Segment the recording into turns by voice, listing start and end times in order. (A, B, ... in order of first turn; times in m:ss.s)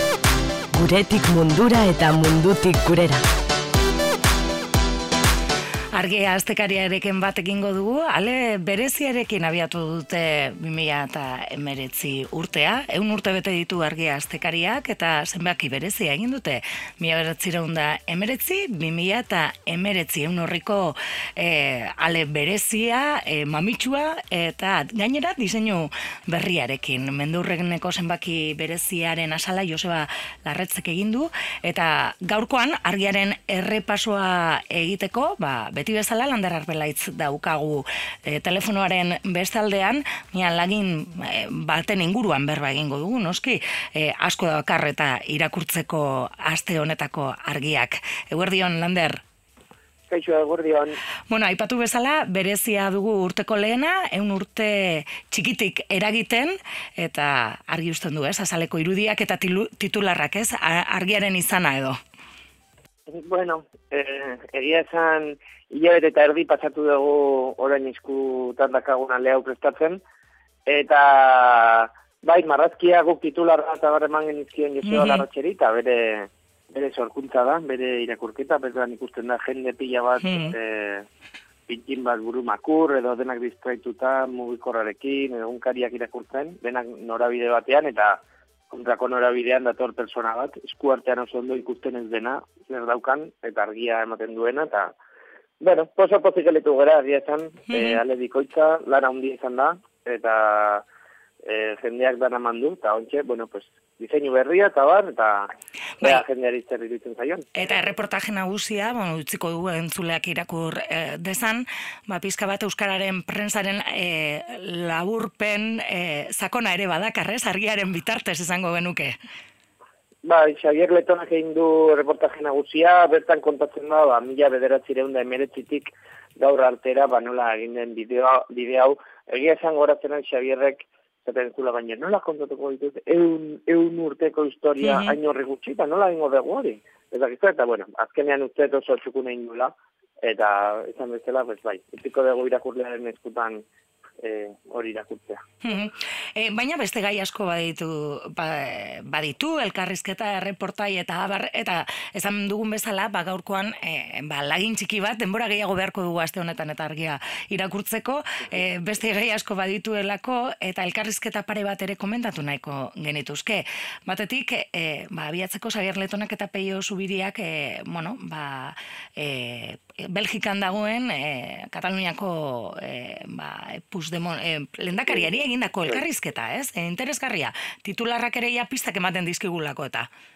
0:00.7-0:03.2 A
0:05.9-0:49.2 B
0:50.1-0:51.0 C
0:51.3-1:02.0 B
1:03.1-1:10.0 C
1:10.7-1:21.1 C
1:14.8-1:15.2 B
1:20.2-1:20.6 B
1:21.7-1:34.9 C
1:35.6-1:40.8 C
1:37.7-1:38.0 B
1:41.4-1:45.5 C
1:46.0-1:47.5 C
1:47.6-1:59.1 B
2:00.2-2:23.6 C
2:14.8-2:15.2 B
2:24.2-2:25.4 C
2:25.6-3:00.1 B
2:55.1-2:56.0 C